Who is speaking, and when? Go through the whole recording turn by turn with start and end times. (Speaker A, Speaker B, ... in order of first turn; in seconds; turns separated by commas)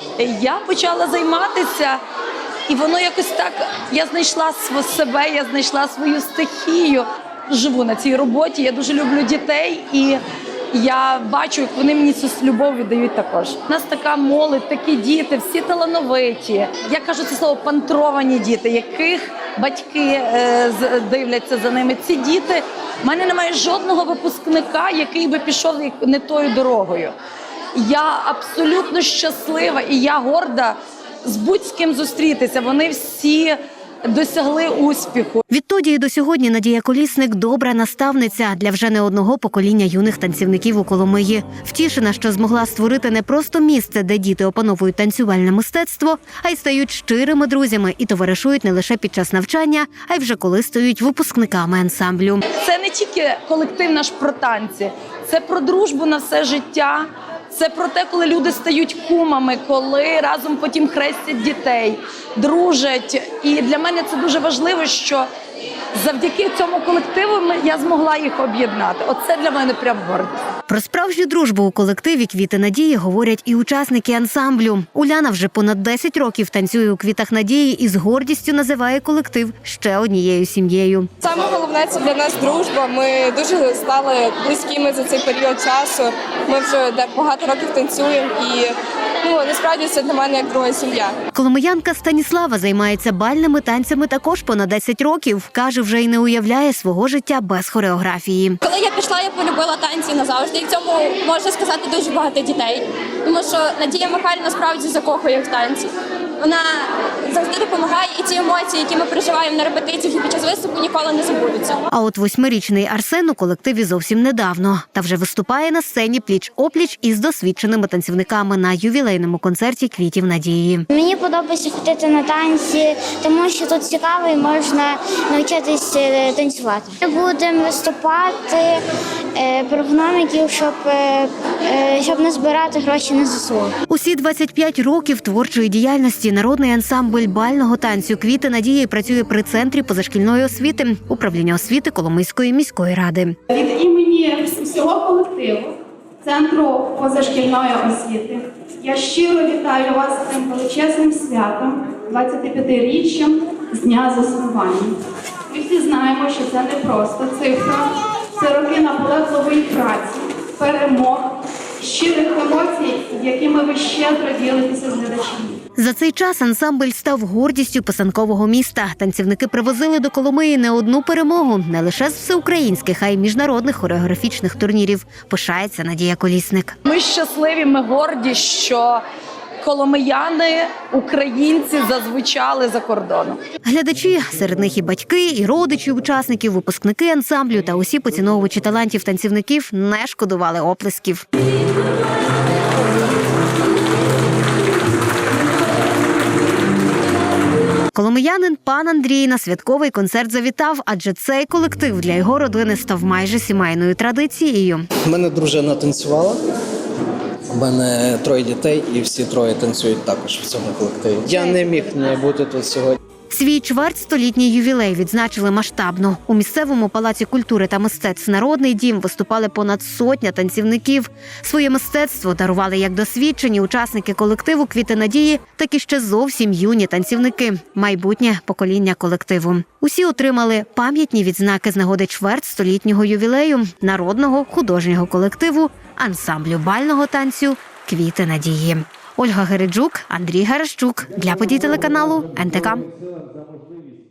Speaker A: 0.2-2.0, Speaker A: 2.7-10.2, Speaker A: 10.7-27.1, Speaker A: 27.8-35.4, Speaker B: 35.5-52.4, Speaker A: 52.5-65.3, Speaker A: 66.0-70.3, Speaker B: 70.7-81.1, Speaker C: 81.2-91.1, Speaker B: 91.3-98.6, Speaker D: 98.6-105.9, Speaker D: 106.4-111.8, Speaker B: 111.9-120.8, Speaker E: 120.9-128.8, Speaker E: 129.3-133.8, Speaker B: 133.9-143.4, Speaker F: 143.5-145.7, Speaker F: 146.2-154.9, Speaker F: 155.5-157.8, Speaker F: 158.4-161.3, Speaker F: 161.8-165.6, Speaker B: 165.8-176.8, Speaker A: 176.9-179.0, Speaker A: 179.6-183.4, Speaker B: 183.6-191.2, Speaker B: 197.9-204.9, Speaker G: 205.0-206.4, Speaker G: 207.5-213.0, Speaker B: 213.3-242.8